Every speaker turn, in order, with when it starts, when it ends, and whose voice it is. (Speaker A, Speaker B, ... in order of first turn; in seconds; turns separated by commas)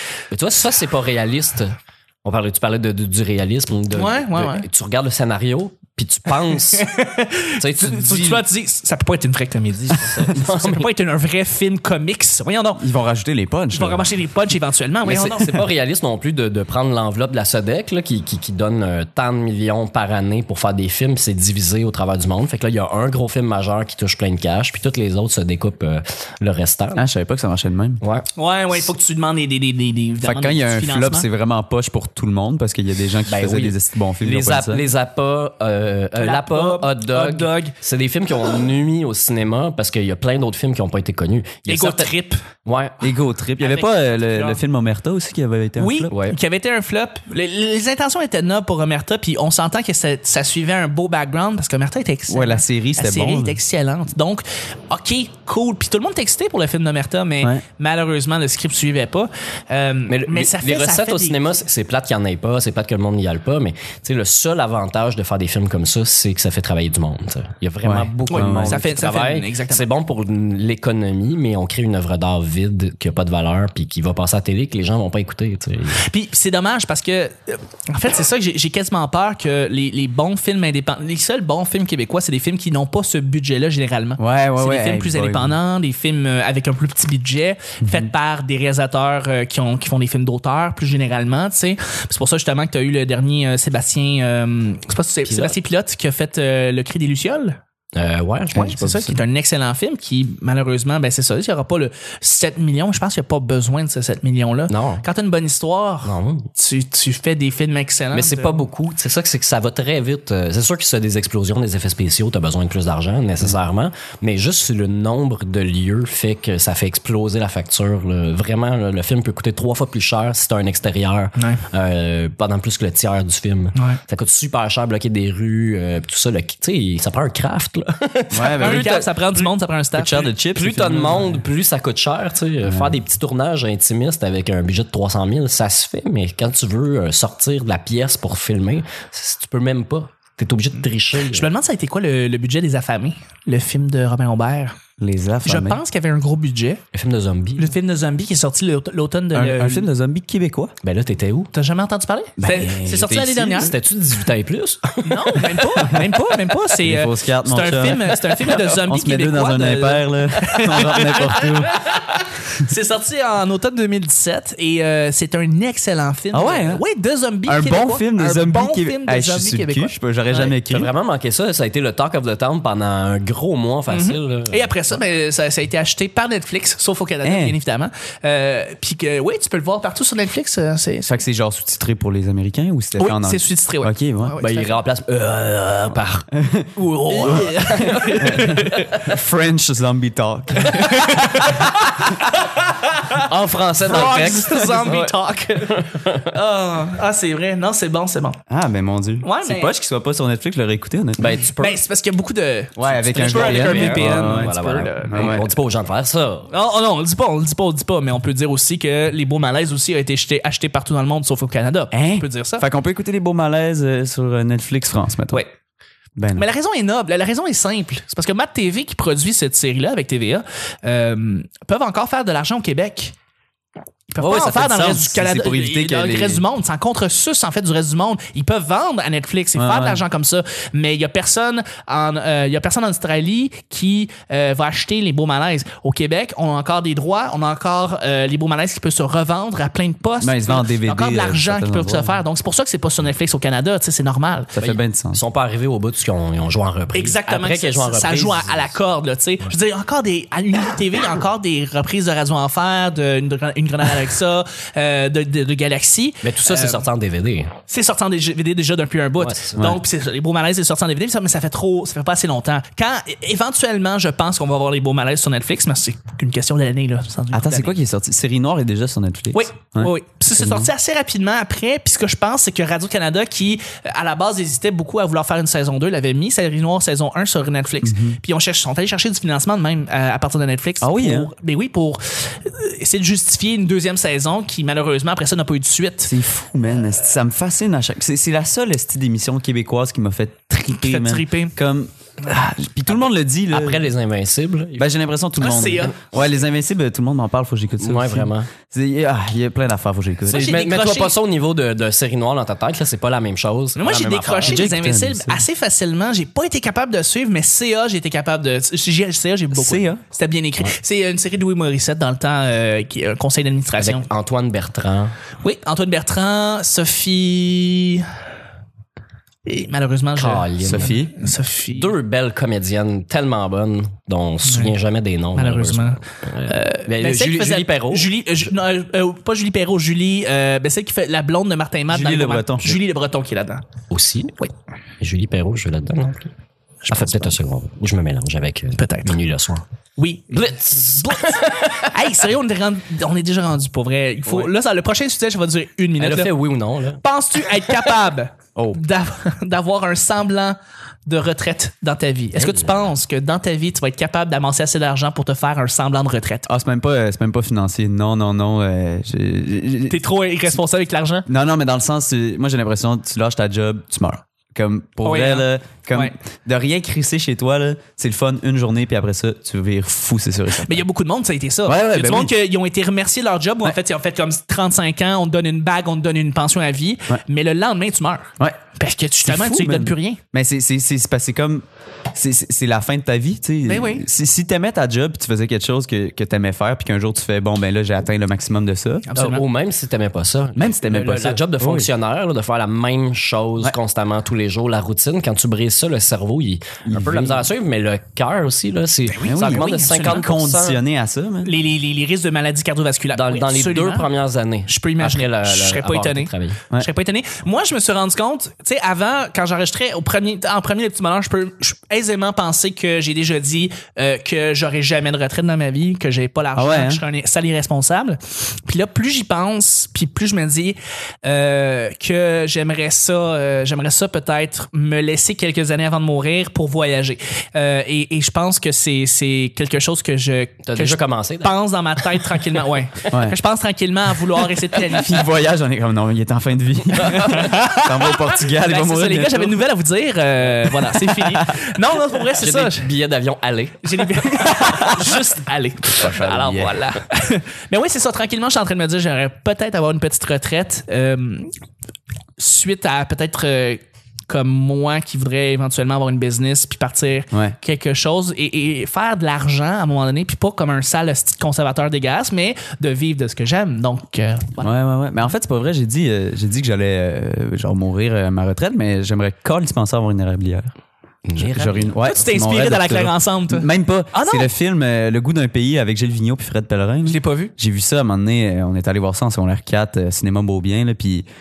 Speaker A: 0.3-6.9, Speaker B: 3.9-4.7, Speaker B: 6.5-12.8, Speaker A: 7.6-8.4, Speaker A: 9.9-10.9, Speaker C: 12.8-14.1, Speaker B: 13.7-15.7, Speaker A: 15.0-27.0, Speaker C: 27.0-28.0, Speaker A: 28.0-28.3, Speaker B: 28.4-31.3, Speaker C: 30.2-34.8, Speaker A: 33.3-42.1, Speaker B: 36.2-37.7, Speaker B: 41.7-42.4, Speaker A: 42.6-43.1, Speaker C: 43.0-46.1, Speaker B: 43.6-44.6, Speaker B: 45.8-61.5, Speaker A: 46.1-46.4, Speaker C: 52.3-53.6, Speaker A: 60.1-76.0, Speaker C: 67.8-68.8, Speaker B: 68.3-69.9, Speaker B: 76.0-97.6, Speaker C: 84.2-85.6, Speaker C: 87.8-88.1, Speaker A: 95.3-95.6, Speaker A: 98.0-99.1, Speaker B: 98.5-108.6, Speaker A: 104.7-105.0, Speaker A: 106.0-106.5, Speaker A: 108.1-129.2, Speaker B: 121.4-121.6, Speaker C: 128.3-128.9, Speaker B: 128.6-130.3, Speaker C: 129.9-131.4, Speaker A: 130.5-141.5, Speaker C: 132.7-132.9, Speaker B: 141.2-144.8, Speaker C: 145.0-145.8, Speaker B: 145.4-146.8, Speaker A: 146.9-147.8, Speaker B: 147.6-149.9, Speaker C: 149.3-150.7, Speaker A: 150.8-151.5, Speaker B: 151.5-153.7, Speaker C: 152.4-153.7, Speaker A: 153.5-156.0, Speaker B: 155.1-170.5, Speaker C: 156.8-161.9, Speaker C: 166.3-166.8, Speaker C: 167.5-170.9, Speaker A: 170.7-175.0, Speaker B: 173.9-181.1, Speaker C: 177.2-177.6, Speaker C: 181.1-184.4, Speaker B: 183.0-184.7, Speaker A: 184.4-186.3, Speaker C: 186.3-191.4, Speaker B: 186.8-188.9, Speaker A: 187.0-189.2, Speaker B: 190.6-193.2, Speaker A: 191.4-191.7, Speaker A: 193.2-196.3, Speaker B: 193.9-198.4, Speaker C: 198.5-201.3, Speaker B: 199.2-199.7, Speaker A: 201.2-201.8, Speaker B: 201.6-205.4, Speaker C: 202.8-205.5, Speaker A: 203.2-206.5, Speaker B: 206.5-212.7, Speaker C: 211.9-215.4, Speaker C: 216.2-216.5, Speaker B: 216.3-223.1, Speaker B: 224.1-244.6, Speaker A: 224.2-224.6, Speaker C: 224.2-226.4, Speaker C: 229.6-230.0, Speaker C: 240.2-242.2, Speaker C: 244.6-245.2, Speaker A: 244.6-248.8, Speaker B: 246.9-256.9, Speaker A: 256.2-257.5, Speaker B: 257.7-267.8, Speaker A: 259.2-259.8, Speaker C: 259.6-259.8, Speaker C: 267.3-270.7, Speaker B: 269.3-286.1, Speaker C: 277.8-278.2, Speaker C: 280.8-281.3, Speaker C: 286.1-293.8, Speaker B: 290.7-291.5, Speaker A: 293.5-294.9, Speaker C: 294.8-300.5, Speaker B: 295.4-296.0, Speaker A: 297.8-298.5, Speaker B: 300.3-301.1, Speaker A: 300.3-304.6, Speaker B: 303.8-314.1, Speaker C: 304.5-305.4, Speaker C: 309.5-310.0, Speaker A: 313.8-315.1, Speaker B: 315.4-318.1, Speaker B: 319.5-321.9, Speaker A: 320.2-321.0, Speaker C: 320.6-321.1, Speaker A: 321.7-328.1, Speaker B: 324.5-324.7, Speaker B: 325.3-333.6, Speaker C: 331.9-332.8, Speaker A: 333.9-334.4, Speaker A: 335.0-336.3, Speaker B: 336.9-337.3, Speaker A: 336.9-339.6, Speaker B: 338.8-339.2, Speaker B: 340.0-346.3, Speaker A: 340.3-342.0, Speaker A: 346.0-347.8, Speaker B: 347.0-356.5, Speaker A: 352.4-352.9, Speaker C: 356.5-360.0, Speaker B: 359.9-361.3, Speaker C: 361.3-370.8, Speaker B: 365.0-366.1, Speaker B: 370.6-380.2, Speaker C: 371.7-372.3, Speaker C: 379.2-389.1, Speaker B: 383.7-384.1, Speaker B: 389.1-389.5, Speaker A: 389.2-400.8, Speaker C: 390.6-391.9, Speaker C: 396.9-397.5, Speaker B: 399.1-400.3, Speaker C: 399.2-401.5, Speaker B: 401.4-404.1, Speaker A: 403.1-406.6, Speaker B: 404.7-435.2, Speaker C: 416.6-417.0, Speaker A: 430.6-432.2, Speaker C: 433.1-433.4, Speaker C: 434.9-439.6, Speaker B: 437.1-442.9, Speaker C: 440.7-441.6, Speaker A: 442.4-443.8, Speaker B: 443.8-451.5, Speaker C: 444.6-445.1, Speaker C: 445.8-446.8, Speaker B: 452.4-464.7, Speaker C: 464.6-470.7, Speaker A: 471.3-472.0, Speaker C: 471.4-481.3, Speaker B: 472.0-474.5, Speaker B: 477.1-477.5